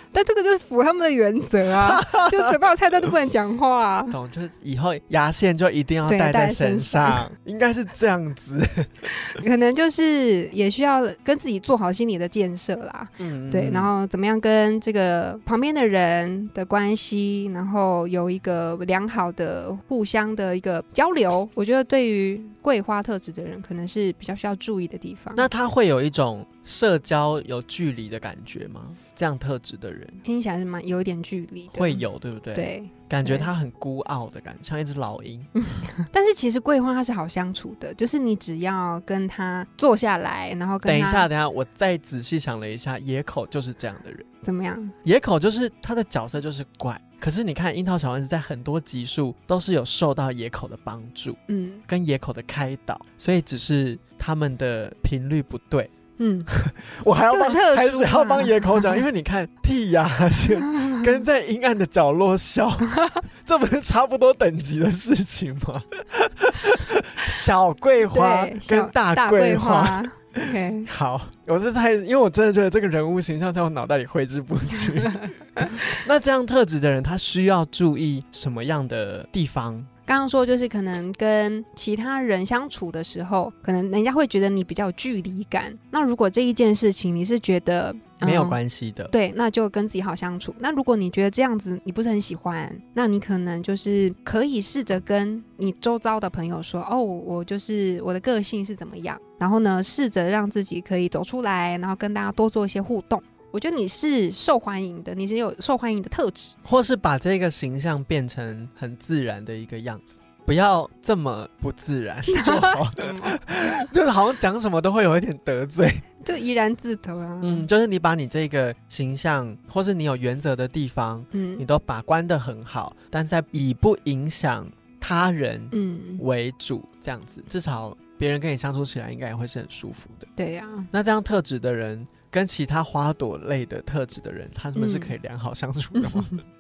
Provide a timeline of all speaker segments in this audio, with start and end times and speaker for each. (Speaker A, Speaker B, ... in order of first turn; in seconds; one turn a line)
Speaker A: 0.1-4.2
Speaker B: 1.9-2.5
Speaker B: 4.1-9.0
Speaker A: 6.0-7.2
Speaker A: 9.1-25.5
Speaker B: 13.2-13.9
Speaker B: 25.4-30.2
Speaker A: 30.2-32.0
Speaker B: 31.7-35.5
Speaker A: 32.5-33.5
Speaker A: 35.6-41.3
Speaker B: 40.8-44.2
Speaker A: 44.4-44.9
Speaker B: 45.0-55.9
Speaker A: 51.5-51.8
Speaker A: 56.2-56.5
Speaker B: 56.5-79.9
Speaker A: 57.3-59.0
Speaker A: 60.8-61.0
Speaker A: 68.0-70.9
Speaker A: 80.1-88.6
Speaker B: 88.2-89.1
Speaker A: 89.1-106.5
Speaker B: 106.6-116.1
Speaker A: 112.3-113.4
Speaker A: 116.2-117.7
Speaker B: 117.4-130.3
Speaker A: 121.3-121.6
Speaker A: 125.7-126.2
Speaker A: 130.4-130.9
Speaker B: 130.9-136.4
Speaker A: 134.8-135.1